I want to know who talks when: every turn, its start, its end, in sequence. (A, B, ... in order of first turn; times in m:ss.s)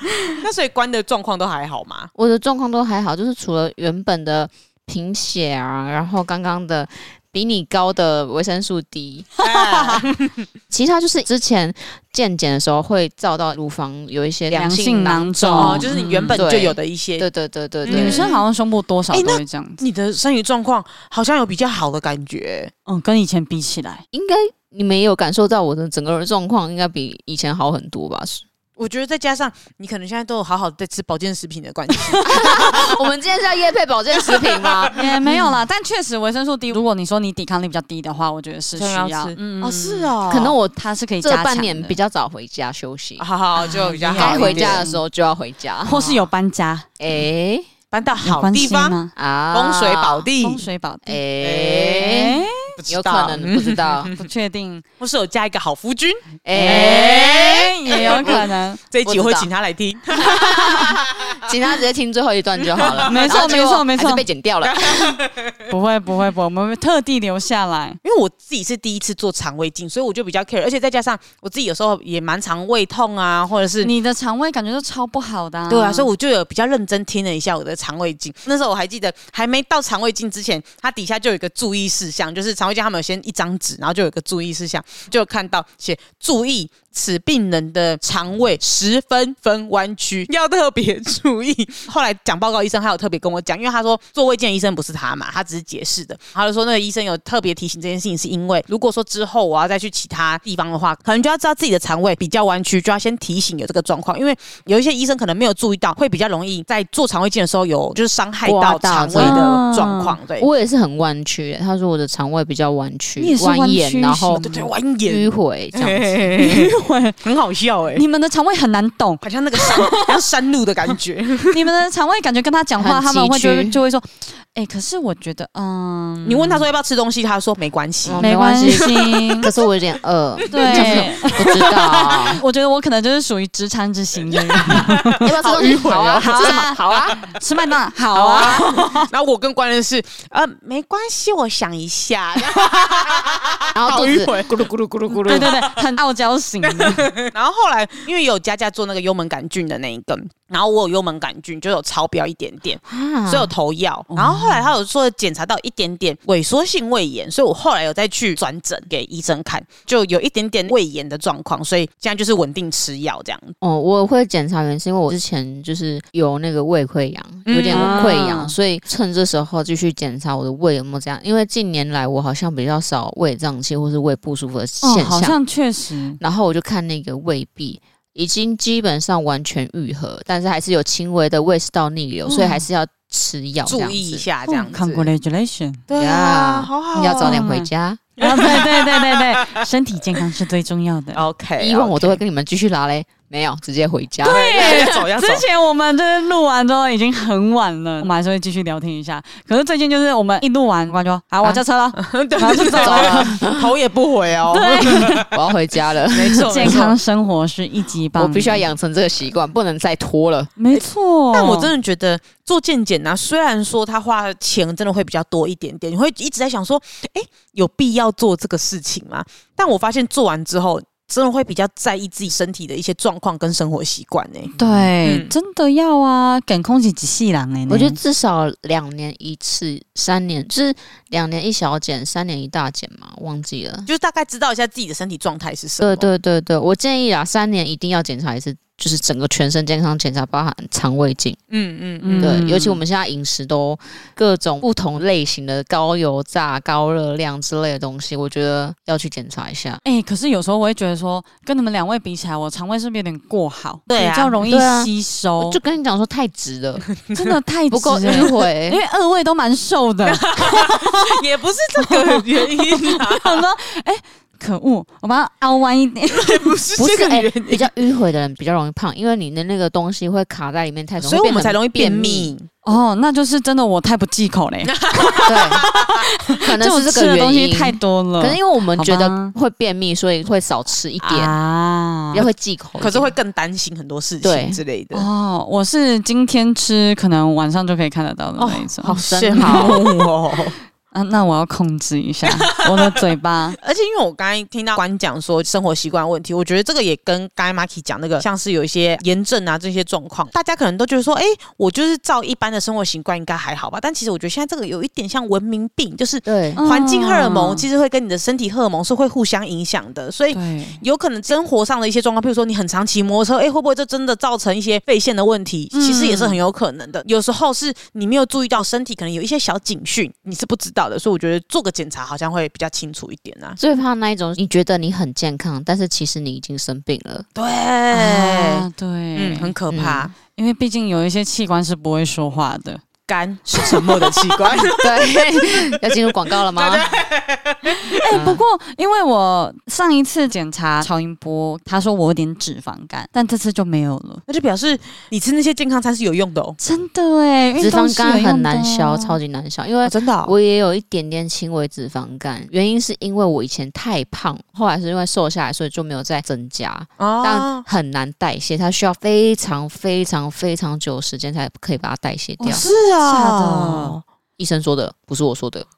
0:00.3-0:02.1 A
0:02.1-0:09.3 B
0:09.4-0:10.0 C
0:09.4-0:10.4 A
0:10.7-0:18.3 B
0:14.5-0:16.4 C
0:15.6-0:17.2 A
0:17.8-0:18.4 A
0:17.9-0:19.8 C
0:19.1-0:22.7 A
0:22.8-0:24.0 C
0:24.1-0:28.4 B
0:28.8-0:33.0 A
0:31.9-0:32.7 C
0:32.2-0:35.0 B
0:34.2-0:35.0 A
0:34.9-0:40.1 C
0:38.7-0:40.6 A
0:40.3-0:43.2 B
0:40.7-0:42.0 C
0:43.2-0:44.8 A
0:43.6-0:45.0 C
0:44.1-0:46.2 B
0:45.8-0:46.9 C
0:47.0-0:47.7 B
0:47.9-0:49.0 A
0:48.2-0:49.1 C
0:49.2-0:50.3 B
0:49.5-0:50.6 A
0:50.4-0:51.2 C
0:51.0-0:54.1 B
0:51.4-0:54.3 A
0:52.0-0:52.7 C
0:54.1-0:54.8 C
0:55.0-1:01.6 A
0:56.4-0:58.5 B
0:56.5-0:58.8 C
0:59.0-0:59.5 B
1:00.2-1:05.2 B
1:02.6-1:03.6 A
1:03.1-1:04.2 C
1:04.6-1:05.7 A
1:05.7-1:08.0 C
1:08.0-1:13.9 A
1:13.8-1:16.1 C
1:15.7-1:50.5 A
1:48.4-1:49.4 B
1:49.1-1:50.2 C
1:50.4-1:54.4 B
1:53.2-1:54.7 C
1:54.4-1:56.7 A
1:55.0-1:56.4 B
1:56.4-1:57.2 C
1:57.2-1:58.0 A
1:57.9-2:00.2 C
1:59.2-2:01.6 A
2:01.5-2:06.6 C
2:02.8-2:03.8 B
2:06.2-2:09.6 A
2:08.0-2:12.4 B
2:08.2-2:09.5 C
2:10.5-2:11.3 A
2:10.5-2:19.0 C
2:14.3-2:17.3 A
2:14.8-2:17.2 B
2:18.1-2:18.9 B
2:18.2-2:25.8 A
2:23.7-2:25.5 B
2:25.2-2:27.1 C
2:26.6-2:43.5 A
2:32.9-2:33.5 B
2:34.1-2:34.7 C
2:43.6-2:55.4 B
2:47.5-2:48.2 A
2:47.7-2:48.5 C
2:54.8-2:56.2 C
2:56.2-3:04.2 B
3:03.6-3:05.1 A
3:04.4-3:05.8 C
3:05.9-3:07.4 A
3:05.9-3:08.0 B
3:07.2-3:07.7 C
3:08.2-3:09.6 A
3:08.2-3:11.2 C
3:11.1-3:12.2 A
3:11.6-3:15.0 B
3:14.2-3:15.4 A
3:14.2-3:23.4 C
3:22.0-3:25.4 A
3:22.8-3:23.7 B
3:24.5-3:25.2 C
3:25.0-3:26.8 B
3:26.1-3:27.0 A
3:26.4-3:28.6 C
3:28.2-3:30.5 B
3:30.6-3:31.7 C
3:30.7-3:45.3 A
3:44.6-3:44.9 B
3:44.6-3:48.0 C
3:47.7-3:53.9 B
3:53.9-3:56.1 A
3:55.8-4:01.4 B
4:01.5-4:02.4 A
4:02.0-4:02.8 C
4:02.2-4:09.8 B
4:09.8-4:15.6 C
4:13.9-4:14.5 A
4:14.4-4:16.8 B
4:17.0-4:17.4 A
4:17.1-4:21.2 C
4:17.7-4:18.8 B
4:20.0-4:23.4 A
4:21.8-4:26.5 C
4:26.1-4:27.7 A
4:26.8-4:32.3 B
4:31.0-4:32.5 A
4:32.6-4:39.3 C
4:34.6-4:36.0 A
4:35.2-4:35.6 B
4:36.4-4:41.4 B
4:41.0-4:42.2 C
4:42.1-4:43.1 B
4:42.8-4:45.1 A
4:44.2-4:44.6 B
4:44.9-4:49.8 C
4:48.4-4:50.6 A
4:48.8-4:49.9 B
4:50.9-4:53.6 C
4:52.2-4:53.0 A
4:53.6-5:23.6 A
5:06.2-5:06.6 B
5:06.5-5:07.6 C
5:10.3-5:10.8 C
5:15.7-5:16.4 C
5:23.6-5:27.2 B
5:27.4-5:30.1 A
5:27.9-5:29.5 C
5:29.7-5:30.1 B
5:30.3-5:32.8 C
5:33.1-5:38.0 A
5:34.8-5:37.0 B
5:37.8-5:44.2 C
5:38.1-5:38.4 B
5:44.3-5:46.6 A
5:46.6-5:49.2 C
5:47.6-6:02.6 B
5:49.8-5:50.3 A
5:57.0-5:57.6 A
6:02.4-6:04.0 C
6:02.4-6:04.0 A
6:04.4-6:05.6 B